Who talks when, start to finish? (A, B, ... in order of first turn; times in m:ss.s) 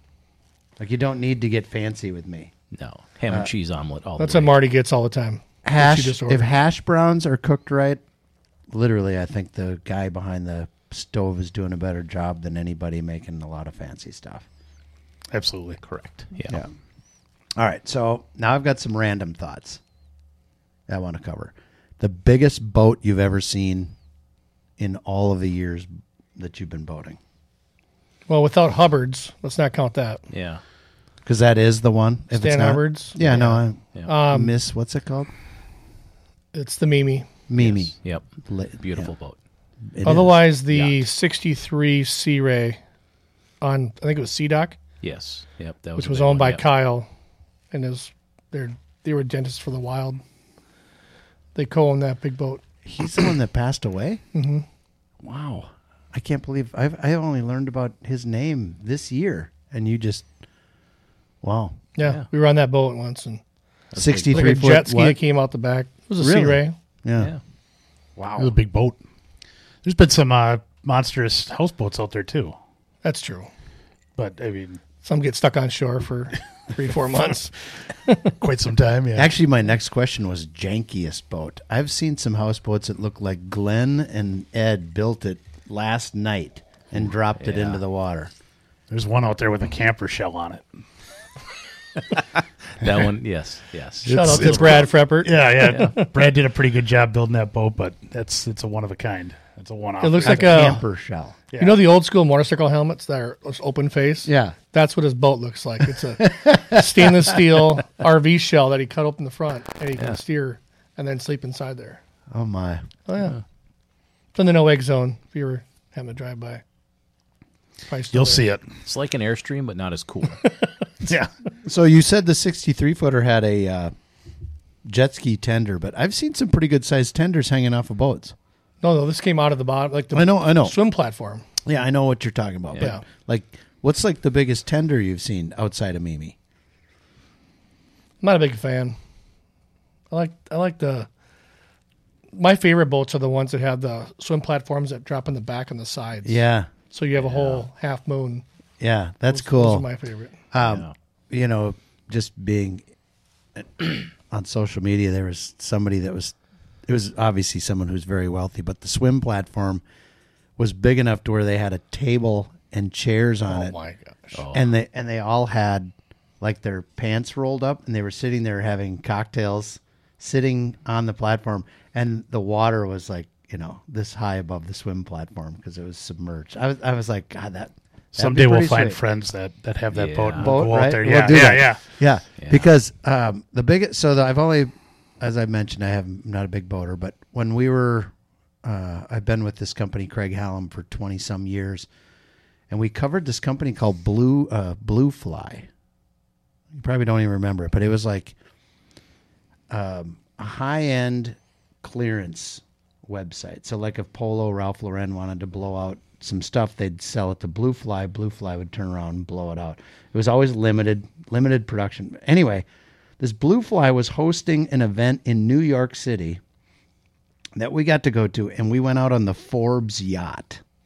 0:00.8-0:02.5 A
0:02.7-0:04.6 B
0:04.2-0:06.4 C
0:05.6-0:08.0 A
0:08.7-0:14.4 A
0:15.3-0:15.8 D
0:15.8-0:16.6 B
0:17.6-0:19.8 A
0:20.9-0:23.9 A
0:24.8-0:27.2 A
0:28.3-0:30.2 C
0:30.3-0:30.6 B
0:31.2-0:35.3 A
0:32.3-0:34.5 C
0:36.5-0:37.3 C
0:37.5-0:37.9 A
0:37.6-0:38.2 B
0:38.4-0:39.1 A
0:38.8-0:39.4 B
0:39.9-0:40.4 A
0:40.0-0:42.8 C
0:40.7-0:41.0 B
0:43.6-0:44.8 C
0:45.0-0:46.6 B
0:46.0-0:47.1 C
0:47.7-0:50.2 C
0:51.5-0:52.6 C
0:52.8-0:54.2 A
0:54.3-0:54.6 C
0:55.2-1:00.2 A
1:01.4-1:01.8 A
1:02.0-1:03.4 C
1:03.9-1:04.5 B
1:04.0-1:05.2 A
1:04.3-1:06.7 C
1:06.2-1:07.3 A
1:08.2-1:08.5 A
1:08.4-1:09.0 D
1:09.8-1:12.6 D
1:13.0-1:13.5 C
1:14.2-1:14.8 D
1:15.0-1:18.3 C
1:18.4-1:19.3 D
1:19.1-1:28.3 A
1:27.4-1:27.8 B
1:28.9-1:30.6 D
1:32.1-1:34.9 B
1:34.0-1:40.8 D
1:34.1-1:36.1 C
1:35.6-1:35.9 B
1:40.0-1:40.8 C
1:40.2-1:41.4 A
1:41.5-1:41.8 D
1:41.6-1:52.0 C
1:44.2-1:44.5 A
1:46.2-1:47.4 A
1:52.3-1:52.8 A
1:53.1-1:53.4 C
1:54.3-1:56.6 C
1:57.9-1:58.4 C
1:58.1-1:58.7 D
1:58.8-2:00.4 B
2:00.4-2:00.7 C
2:01.0-2:01.3 D
2:01.6-2:03.9 A
2:04.8-2:08.3 A
2:08.8-2:11.4 C
2:10.1-2:10.8 A
2:11.6-2:16.4 A
2:18.2-2:19.0 C
2:20.1-2:21.1 C
2:22.3-2:28.4 C
2:26.2-2:26.7 A
2:27.2-2:27.6 B
2:28.8-2:29.8 A
2:29.3-2:30.4 C
2:30.5-2:32.8 A
2:30.6-2:30.9 B
2:33.6-2:36.3 A
2:36.8-2:39.8 A
2:40.6-2:43.7 A
2:43.5-2:44.4 C
2:44.3-2:44.6 B
2:44.5-2:59.0 A
2:58.1-3:01.8 D
2:59.9-3:00.6 B
3:00.3-3:08.1 A
3:02.4-3:02.7 B
3:08.6-3:11.9 A
3:12.7-3:15.7 A
3:16.7-3:18.3 A
3:19.7-3:32.6 A
3:33.2-3:36.4 A
3:37.6-3:40.6 A